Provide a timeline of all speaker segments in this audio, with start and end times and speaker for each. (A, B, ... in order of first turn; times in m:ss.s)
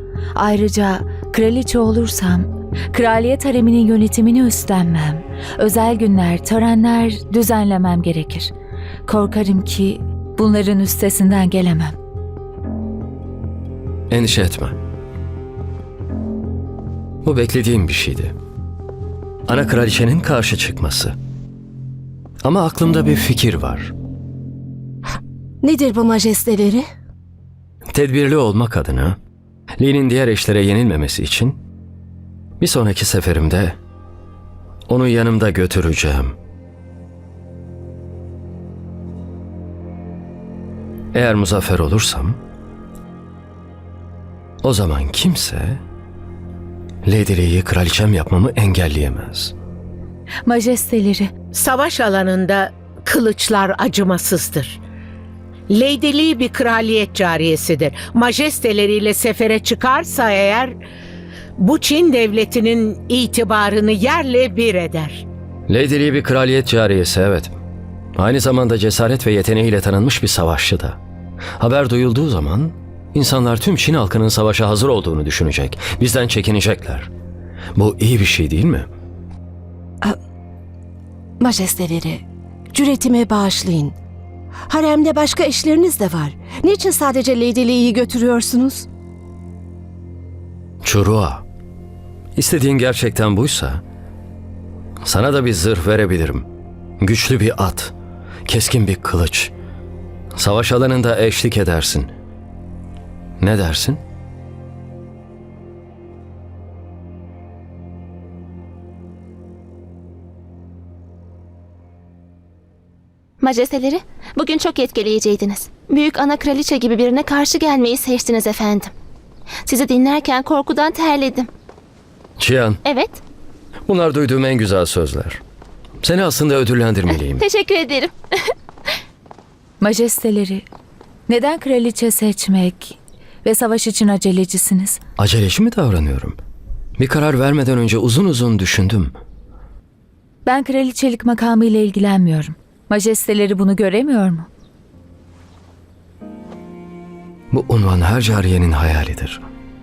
0:00.4-0:08.5 A
0:09.1-0:12.0 A
0:14.1-0:14.8 B
0:17.2-0:18.4 B
0:19.5-0:21.2 B
0:22.4-0:23.9 B
0:25.6-0:26.9 C
0:27.9-0:29.2 B
0:29.8-0:31.6 B
0:32.6-0:33.8 B
0:34.9-0:36.4 B
0:41.1-0:42.4 B
0:44.6-0:45.8 B
0:47.1-0:49.6 B
0:50.5-0:51.3 A
0:51.5-0:54.8 D
0:55.7-1:00.8 D
1:01.6-1:05.3 D
1:05.7-1:07.6 B
1:08.2-1:11.0 B
1:11.6-1:17.1 B
1:17.8-1:18.9 B
1:21.4-1:24.0 C
1:24.7-1:28.9 C
1:30.8-1:31.4 B
1:32.4-1:33.8 B
1:35.0-1:36.5 B
1:37.0-1:37.9 B
1:38.5-1:39.5 B
1:40.4-1:42.1 B
1:43.4-1:44.0 B
1:53.4-1:58.9 E
1:59.7-2:01.5 E
2:02.4-2:02.8 B
2:02.8-2:03.2 E
2:03.9-2:05.4 B
2:06.0-2:07.5 B
2:07.1-2:08.1 E
2:09.8-2:10.7 A
2:11.3-2:15.0 A
2:15.2-2:16.4 B
2:17.0-2:19.2 B
2:20.4-2:24.5 A
2:27.5-2:29.4 B